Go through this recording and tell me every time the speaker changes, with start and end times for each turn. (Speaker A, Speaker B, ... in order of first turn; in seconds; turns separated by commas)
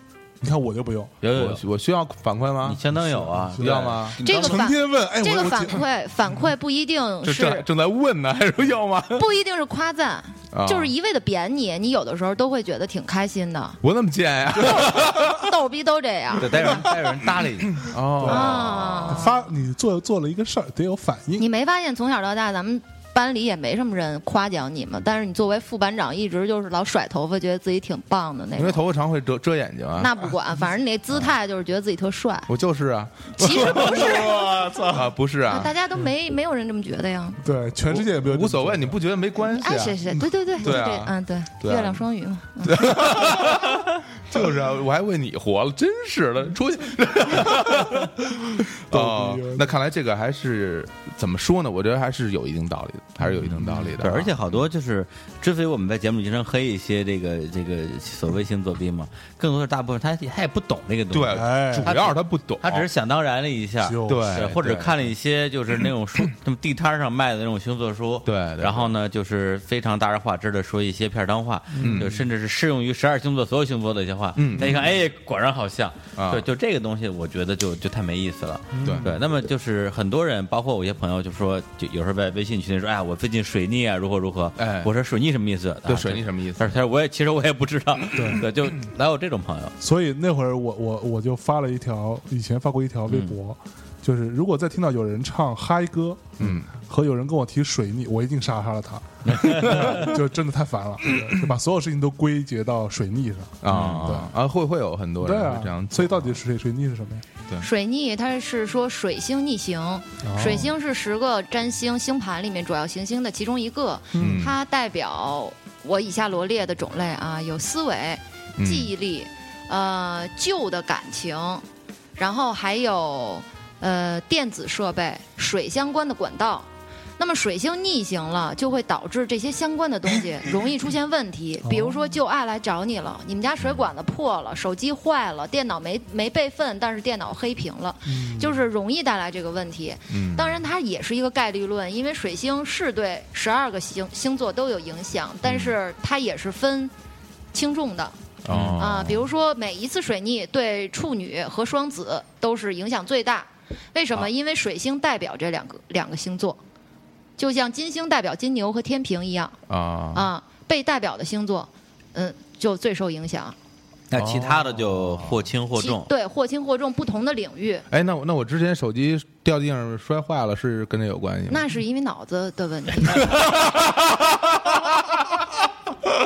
Speaker A: 0.4-1.1, Speaker B: 1.2-1.6, Speaker C: 1.3-2.8, Speaker B: 2.6-4.6, Speaker A: 2.9-5.8, Speaker C: 3.6-4.2, Speaker D: 4.2-7.6, Speaker C: 7.2-9.2, Speaker D: 9.1-13.8, Speaker C: 10.5-10.9, Speaker C: 13.8-15.5, Speaker D: 14.7-16.8, Speaker B: 16.4-17.9, Speaker C: 17.7-19.3, Speaker A: 18.2-21.5, Speaker D: 18.2-19.4, Speaker D: 21.4-28.8, Speaker C: 28.6-30.3, Speaker D: 30.0-32.5, Speaker C: 32.5-35.7, Speaker D: 33.4-34.7, Speaker A: 33.7-35.1, Speaker D: 35.5-37.4, Speaker A: 37.4-39.0, Speaker C: 37.9-42.0, Speaker D: 39.4-43.1, Speaker C: 42.6-54.3, Speaker A: 48.9-49.7, Speaker B: 53.8-89.7, Speaker C: 61.1-62.9, Speaker A: 61.3-61.9, Speaker A: 63.8-64.4, Speaker C: 64.0-65.1, Speaker C: 68.2-68.9, Speaker A: 71.7-72.2, Speaker C: 71.8-72.2, Speaker C: 74.3-74.9, Speaker C: 76.2-76.5, Speaker A: 78.7-79.1, Speaker C: 78.8-79.1, Speaker C: 84.6-84.9, Speaker C: 85.8-86.8, Speaker A: 88.1-88.4, Speaker A: 89.8-104.3, Speaker B: 93.1-93.3, Speaker C: 96.4-96.7, Speaker B: 99.3-100.2, Speaker C: 101.2-101.5, Speaker C: 103.6-106.4, Speaker B: 103.7-104.1, Speaker A: 105.2-107.2, Speaker D: 107.6-121.6, Speaker A: 110.2-110.7, Speaker A: 114.1-114.5, Speaker C: 114.2-114.5, Speaker C: 118.6-118.9, Speaker D: 122.2-126.7, Speaker D: 127.2-146.9, Speaker A: 131.6-132.1, Speaker A: 138.1-138.6, Speaker C: 140.1-140.6, Speaker C: 145.5-145.7, Speaker D: 147.5-148.2, Speaker C: 148.4-149.2, Speaker B: 148.5-148.8, Speaker D: 148.8-156.6, Speaker D: 157.4-159.6, Speaker C: 159.7-160.3, Speaker D: 160.1-163.5, Speaker B: 164.1-166.1, Speaker C: 164.1-165.4, Speaker D: 165.8-167.8, Speaker C: 167.9-171.7, Speaker D: 171.5-173.5, Speaker C: 173.2-174.8